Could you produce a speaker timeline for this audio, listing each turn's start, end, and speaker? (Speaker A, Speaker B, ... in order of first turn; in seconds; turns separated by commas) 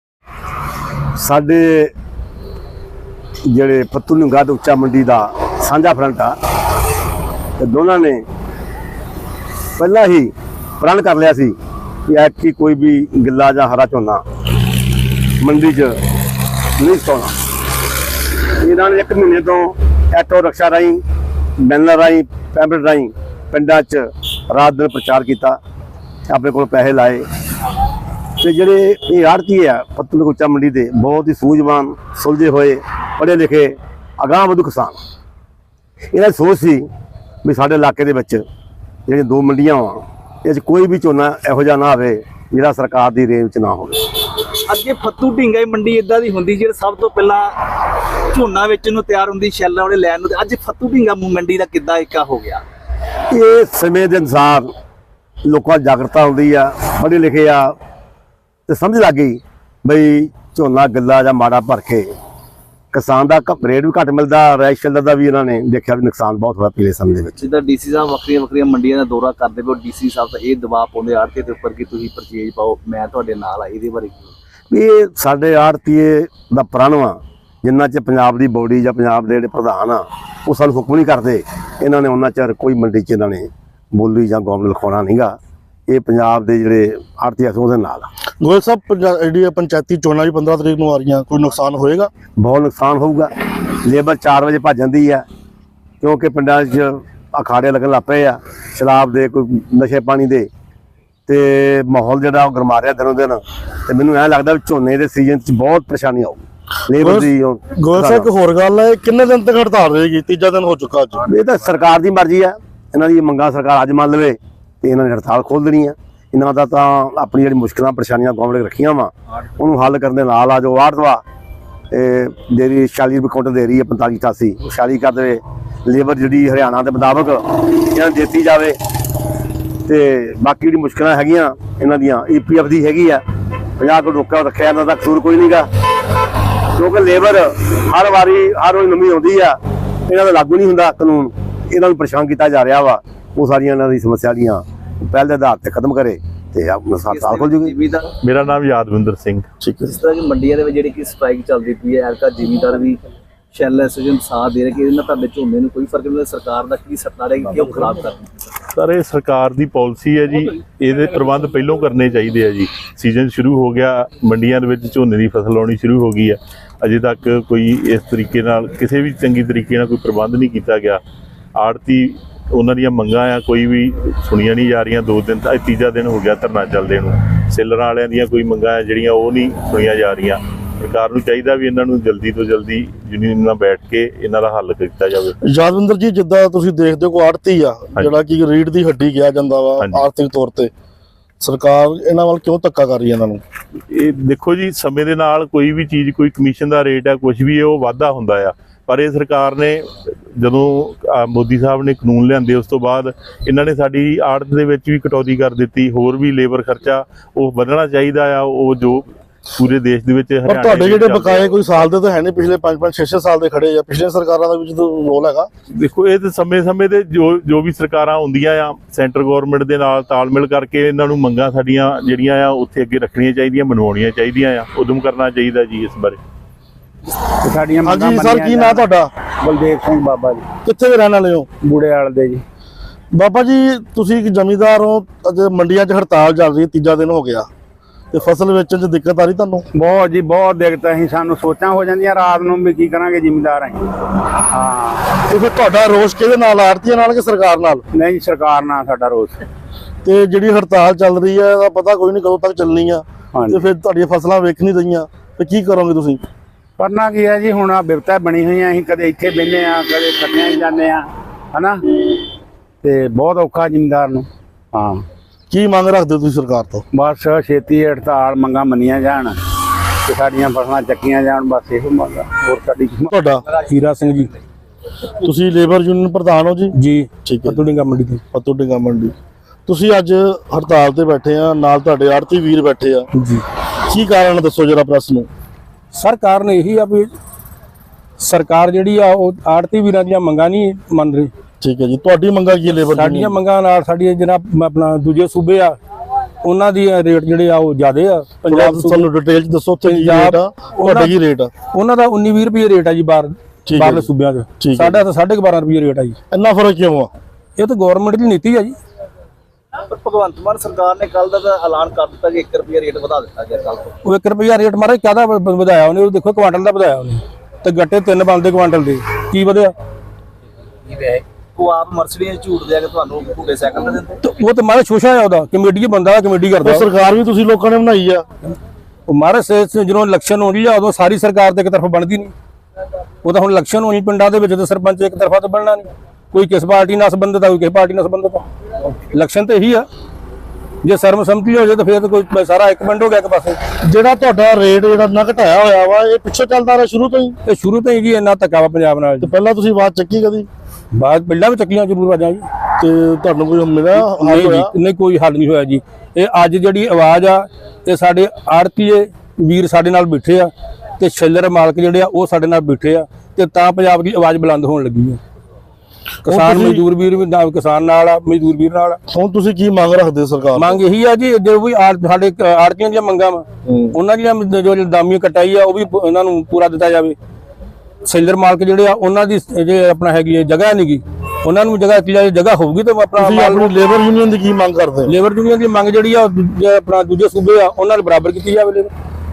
Speaker A: 1.2-1.9, Speaker A: 3.5-6.3, Speaker A: 7.6-8.2, Speaker A: 9.8-11.5, Speaker A: 12.1-14.2, Speaker A: 15.4-15.9, Speaker A: 16.8-17.3, Speaker A: 18.6-21.0, Speaker A: 21.6-25.6, Speaker A: 26.3-27.2, Speaker A: 28.4-35.0, Speaker A: 36.1-36.8, Speaker A: 37.5-38.4, Speaker A: 39.1-43.9, Speaker B: 44.6-47.6, Speaker B: 48.3-52.6, Speaker A: 53.3-54.7, Speaker A: 55.5-57.7, Speaker A: 58.7-62.1, Speaker A: 62.9-67.3, Speaker B: 67.4-74.3, Speaker A: 74.7-85.3, Speaker A: 85.9-88.1, Speaker C: 88.4-92.1, Speaker A: 92.3-93.3, Speaker A: 93.8-95.2, Speaker A: 96.0-100.5, Speaker A: 101.3-108.3, Speaker C: 107.0-111.2, Speaker A: 111.3-121.2, Speaker A: 121.9-127.4, Speaker A: 127.9-128.7, Speaker A: 129.9-133.2, Speaker A: 133.8-135.6, Speaker A: 136.8-139.5, Speaker A: 140.1-147.7, Speaker B: 147.1-148.1, Speaker D: 148.2-149.5, Speaker C: 149.6-149.9, Speaker B: 149.8-153.0, Speaker B: 153.5-158.5, Speaker D: 158.8-171.0, Speaker D: 171.6-185.3, Speaker C: 185.4-190.7, Speaker D: 189.8-190.1, Speaker C: 191.4-193.4, Speaker D: 193.9-211.5, Speaker C: 210.5-215.5, Speaker D: 215.7-226.2, Speaker E: 227.4-228.8, Speaker C: 227.8-229.1, Speaker E: 229.4-230.5, Speaker C: 230.6-231.5, Speaker E: 231.6-232.4, Speaker C: 233.1-237.5, Speaker C: 238.1-239.7, Speaker E: 239.7-243.9, Speaker E: 244.5-245.2, Speaker C: 245.2-247.8, Speaker E: 247.9-249.4, Speaker C: 250.0-256.2, Speaker E: 253.3-253.7, Speaker E: 256.8-261.8, Speaker E: 262.8-265.0, Speaker C: 265.5-266.8, Speaker E: 266.9-269.4, Speaker E: 270.1-273.1, Speaker C: 273.1-273.4, Speaker F: 273.7-274.3, Speaker C: 275.2-277.6, Speaker F: 276.7-278.2, Speaker C: 278.3-279.1, Speaker C: 279.7-283.1, Speaker F: 283.1-283.4, Speaker C: 283.9-285.3, Speaker F: 285.9-287.1, Speaker F: 288.2-291.3, Speaker C: 291.6-293.4, Speaker F: 292.7-295.8, Speaker F: 296.4-299.1, Speaker C: 298.5-301.5, Speaker F: 299.8-301.2, Speaker F: 301.7-306.2, Speaker C: 303.7-304.1, Speaker C: 304.6-305.0, Speaker C: 306.3-307.1, Speaker F: 307.6-308.8, Speaker B: 309.8-314.0, Speaker F: 314.0-319.7, Speaker B: 321.0-324.2, Speaker F: 324.2-326.9, Speaker C: 326.6-328.2, Speaker F: 329.1-332.3, Speaker F: 333.2-339.9, Speaker F: 340.8-343.6, Speaker C: 343.8-347.4, Speaker F: 347.4-349.3, Speaker C: 349.2-350.5, Speaker F: 350.9-352.5, Speaker C: 352.8-354.7, Speaker F: 353.9-365.2, Speaker F: 366.2-369.0, Speaker C: 366.3-366.8, Speaker C: 369.1-370.8, Speaker F: 370.5-377.2, Speaker C: 373.6-373.9, Speaker F: 378.0-383.9, Speaker C: 383.2-385.1, Speaker F: 385.1-388.9